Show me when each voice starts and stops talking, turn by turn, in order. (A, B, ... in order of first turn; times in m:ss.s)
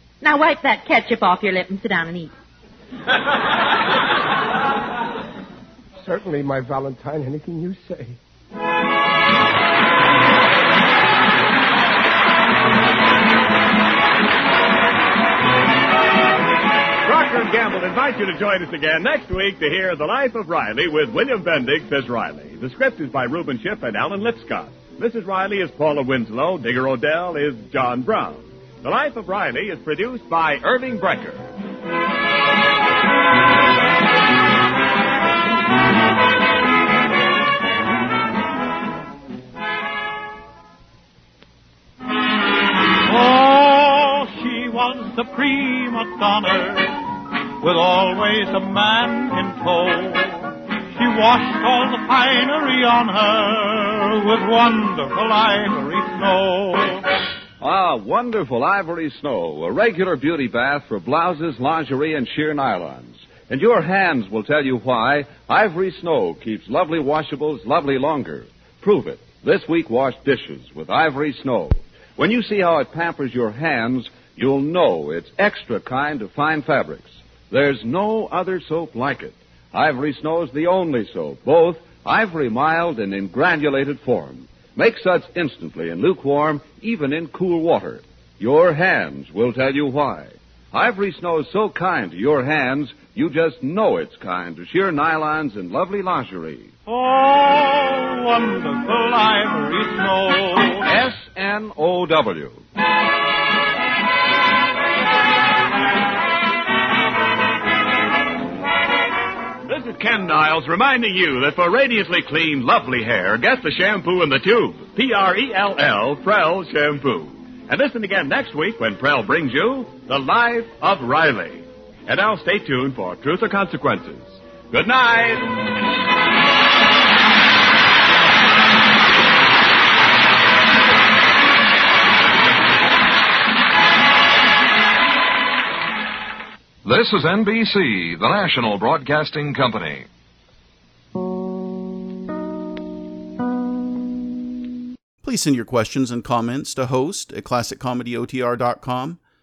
0:00.2-0:02.3 A
0:06.0-0:08.2 B
0:17.0-0:31.4 C
0:43.0-0:47.0 D
0:47.6-0:57.0 D
0:57.6-1:36.7 E
1:36.8-1:40.8 D
1:40.8-1:42.6 E
1:49.7-2:05.6 C
2:16.8-2:20.0 F
2:25.2-2:29.2 G